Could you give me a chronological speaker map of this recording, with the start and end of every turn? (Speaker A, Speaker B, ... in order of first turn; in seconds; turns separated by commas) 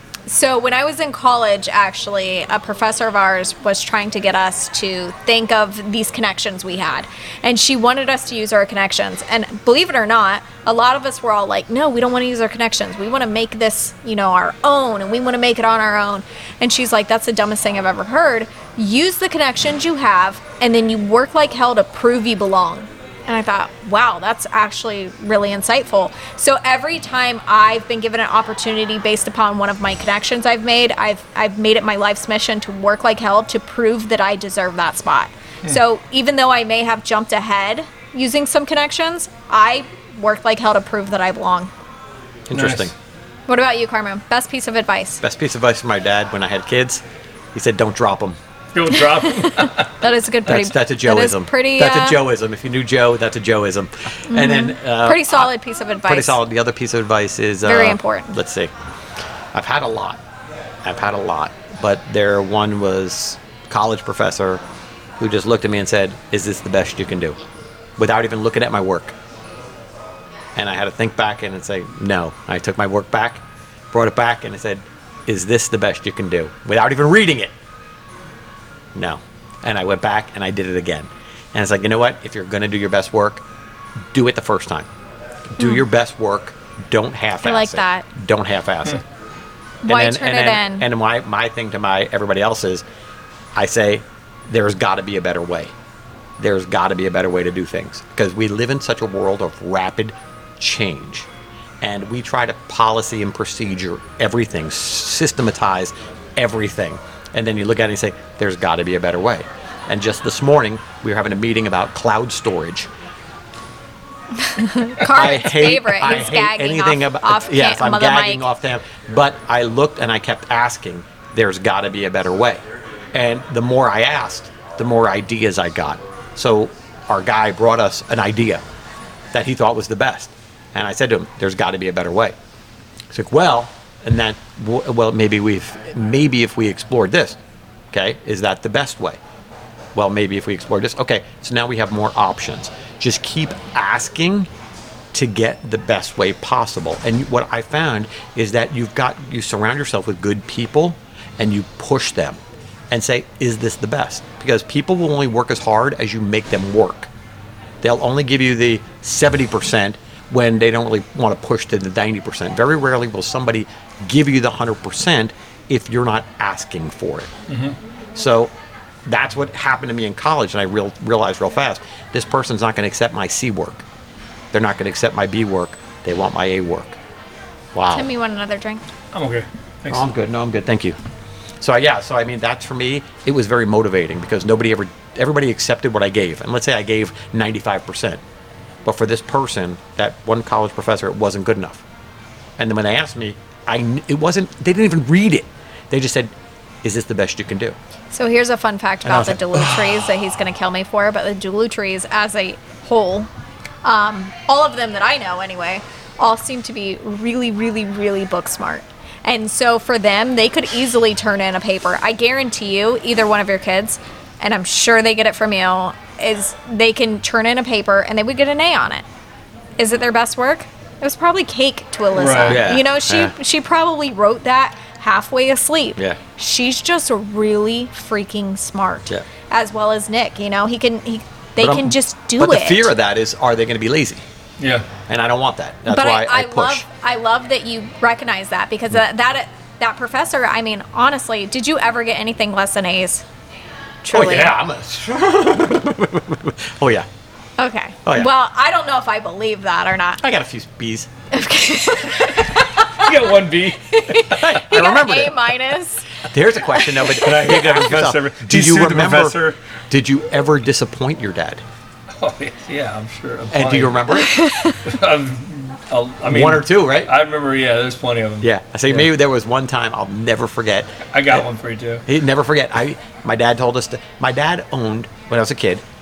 Speaker A: 0.3-41.7, Speaker B: 42.5-42.9, Speaker C: 42.5-42.9, Speaker A: 43.5-45.2, Speaker B: 45.2-47.0, Speaker B: 47.5-48.4, Speaker C: 48.7-49.9, Speaker A: 48.9-52.2, Speaker B: 50.5-55.5, Speaker A: 54.3-56.4, Speaker B: 56.0-58.7, Speaker A: 57.6-58.4, Speaker B: 59.5-60.2, Speaker B: 60.8-64.6, Speaker B: 65.2-67.4, Speaker B: 68.0-69.1, Speaker B: 70.5-77.5, Speaker B: 78.9-83.4, Speaker B: 84.1-84.9, Speaker B: 85.5-89.0, Speaker A: 85.6-85.8, Speaker A: 87.4-88.0, Speaker A: 89.8-90.9, Speaker B: 89.8-92.8, Speaker B: 93.5-95.7, Speaker B: 96.4-101.3, Speaker B: 101.8-112.9, Speaker A: 114.4-118.5, Speaker B: 115.0-122.6, Speaker B: 123.1-128.6, Speaker B: 129.3-132.3, Speaker B: 133.1-137.4, Speaker B: 137.9-139.2, Speaker B: 139.9-144.5, Speaker B: 145.1-152.4, Speaker B: 152.9-157.1, Speaker B: 157.8-167.3, Speaker C: 167.5-167.8, Speaker B: 168.1-168.5, Speaker B: 169.1-173.8, Speaker B: 174.5-177.0, Speaker B: 177.7-178.1, Speaker A: 177.9-178.8, Speaker C: 179.1-180.0, Speaker B: 179.9-180.9, Speaker B: 181.6-188.2, Speaker B: 188.8-191.8, Speaker B: 192.6-196.3, Speaker B: 196.8-197.8, Speaker A: 198.1-203.3, Speaker B: 199.0-199.8, Speaker A: 203.8-219.0, Speaker A: 219.8-232.9, Speaker C: 222.1-222.7, Speaker B: 222.5-223.3, Speaker B: 231.6-234.2, Speaker C: 234.6-234.9, Speaker B: 235.1-236.8, Speaker A: 235.9-243.2, Speaker A: 244.0-244.6, Speaker B: 244.1-247.1, Speaker A: 247.6-250.2, Speaker B: 250.2-251.1, Speaker A: 251.3-253.2, Speaker C: 252.9-254.5, Speaker A: 253.9-256.0, Speaker B: 254.3-255.4, Speaker B: 256.3-259.4, Speaker C: 257.2-259.6, Speaker B: 259.9-261.6, Speaker C: 262.1-264.2, Speaker B: 263.5-264.4, Speaker A: 264.2-264.8, Speaker C: 264.8-269.1, Speaker B: 266.2-267.1, Speaker B: 268.4-271.4, Speaker C: 271.1-272.0, Speaker B: 272.0-275.8